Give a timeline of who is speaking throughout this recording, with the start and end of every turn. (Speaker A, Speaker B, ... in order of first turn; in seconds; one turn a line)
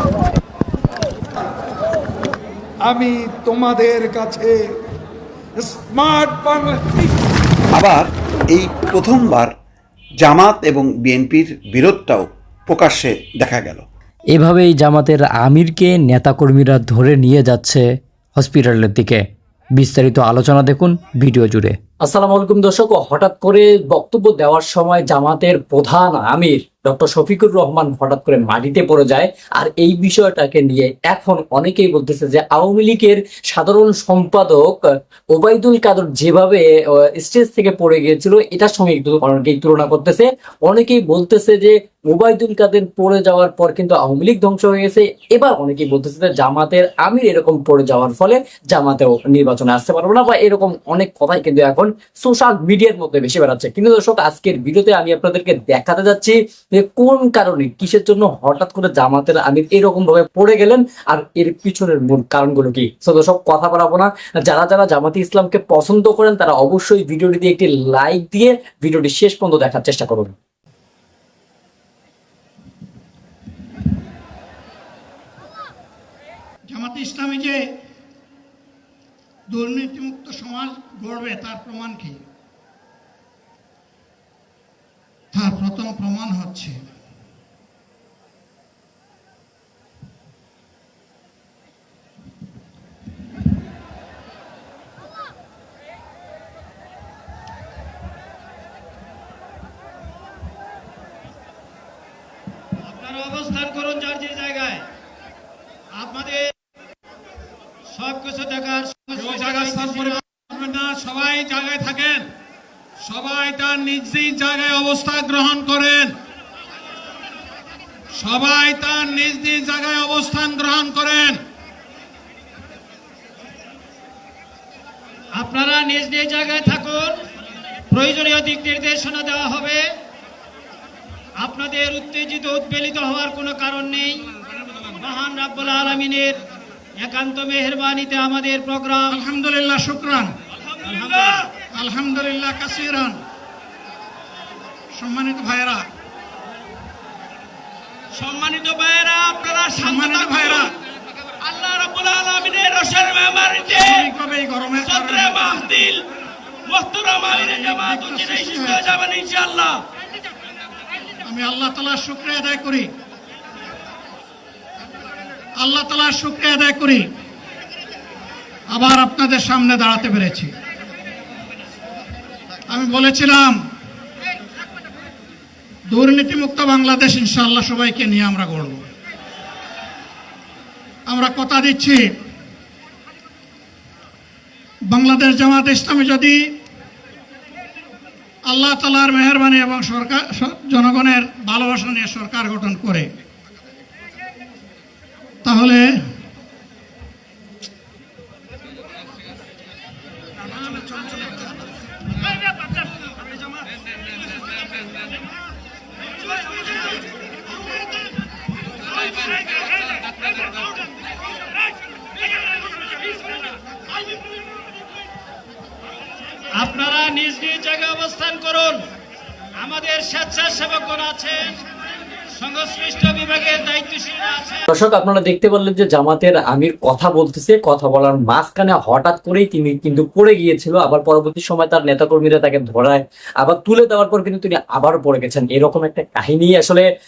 Speaker A: 2.8-4.8
Speaker A: 5.6-7.1
Speaker B: 7.8-9.5
Speaker B: 10.2-13.8
Speaker C: 14.3-19.2
Speaker C: 19.8-34.8
Speaker C: 35.3-70.3
Speaker D: 76.7-77.6
Speaker D: 79.5-82.2
Speaker D: 85.3-86.8
Speaker E: 102.8-104.9
Speaker E: 105.9-106.5
Speaker E: 107.9-110.2
Speaker F: 109.2-112.3
Speaker F: 113.0-116.2
Speaker F: 118.2-121.4
Speaker E: 125.3-127.2
Speaker E: 127.9-129.8
Speaker E: 131.4-134.3
Speaker E: 134.9-136.4
Speaker E: 137.0-139.2
Speaker D: 139.1-140.3
Speaker E: 140.8-141.5
Speaker D: 141.7-143.2
Speaker D: 144.9-145.9
Speaker E: 148.1-150.7
Speaker D: 149.8-150.7
Speaker E: 151.4-154.1
Speaker D: 153.7-155.6
Speaker E: 154.9-156.0
Speaker E: 156.7-159.8
Speaker D: 157.3-158.9
Speaker D: 161.2-162.9
Speaker D: 165.6-167.1
Speaker D: 168.7-170.5
Speaker D: 172.7-173.6
Speaker D: 175.9-178.8
Speaker D: 181.1-182.1
Speaker D: 184.9-186.5
Speaker D: 188.4-193.1
Speaker D: 195.4-196.0
Speaker E: 216.6-218.8
Speaker E: 219.6-221.5
Speaker E: 222.3-224.7
Speaker C: 224.7-236.9